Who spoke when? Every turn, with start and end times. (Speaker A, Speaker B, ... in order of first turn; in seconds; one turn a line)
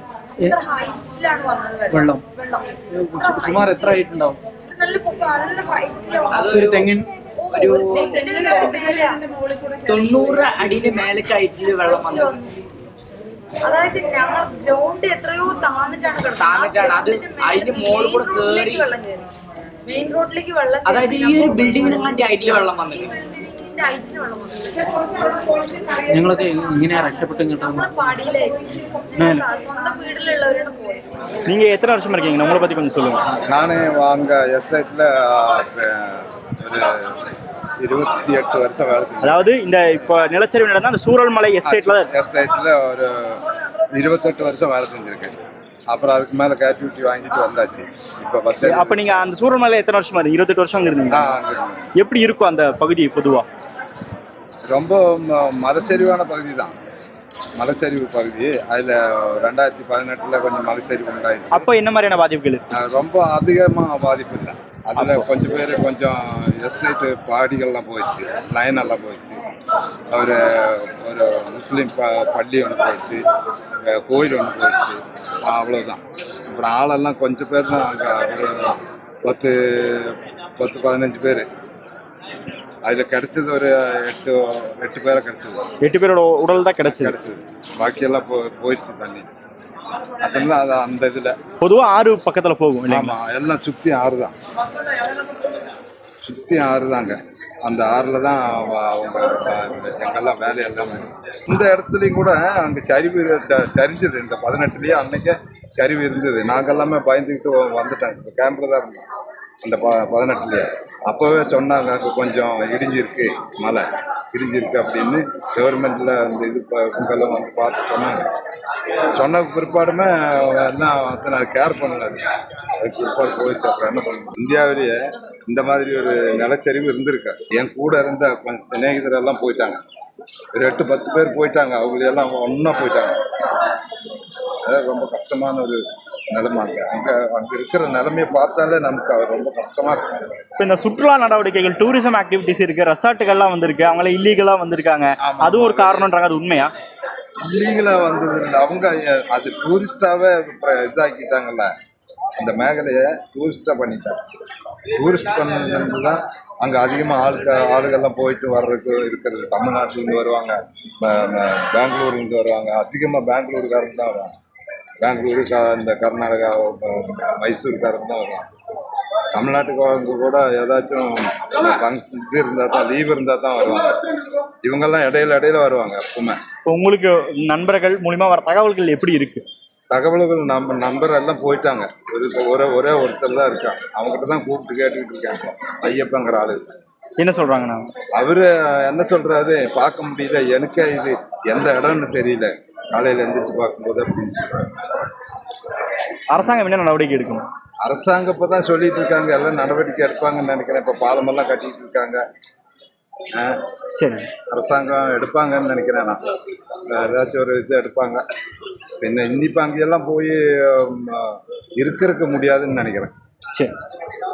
Speaker A: 0.3-4.1
Speaker B: 1.9-2.2
Speaker B: 2.9-4.4
Speaker A: 4.6-9.2
Speaker C: 6.5-6.8
Speaker B: 6.5-7.1
Speaker C: 7.6-8.1
Speaker C: 9.8-12.2
Speaker A: 9.9-10.9
Speaker A: 11.6-12.6
Speaker A: 13.6-19.2
Speaker C: 16.5-18.8
Speaker A: 19.9-26.0
Speaker C: 20.9-23.0
Speaker B: 26.1-27.9
Speaker A: 27.5-31.1
Speaker B: 29.2-29.4
Speaker D: 31.4-33.2
Speaker E: 33.5-37.2
Speaker E: 37.8-39.5
Speaker D: 39.2-42.1
Speaker E: 41.6-45.4
Speaker E: 45.9-49.0
Speaker D: 48.6-51.4
Speaker E: 51.1-51.9
Speaker D: 52.0-53.5
Speaker E: 54.7-56.7
Speaker E: 57.5-61.7
Speaker D: 61.5-62.6
Speaker E: 62.7-69.4
Speaker D: 65.0-65.2
Speaker E: 70.1-73.2
Speaker E: 73.8-81.5
Speaker E: 82.8-85.7
Speaker D: 85.8-87.1
Speaker E: 86.8-89.3
Speaker E: 90.0-91.4
Speaker D: 91.6-93.2
Speaker E: 92.9-94.3
Speaker E: 96.2-109.0
Speaker E: 109.6-118.3
Speaker E: 119.1-129.8
Speaker E: 130.5-133.7
Speaker E: 134.6-140.4
Speaker D: 140.6-146.7
Speaker E: 145.2-146.1
Speaker E: 147.4-151.7
Speaker E: 152.4-154.2
Speaker E: 154.9-164.3
Speaker E: 165.0-168.5
Speaker E: 169.3-176.4
Speaker D: 176.7-179.4
Speaker E: 179.9-186.7
Speaker D: 187.2-187.9
Speaker E: 188.1-195.1
Speaker D: 196.3-197.4
Speaker E: 197.8-202.2
Speaker E: 203.3-203.6
Speaker D: 203.9-204.3
Speaker E: 204.5-208.2
Speaker E: 209.0-213.1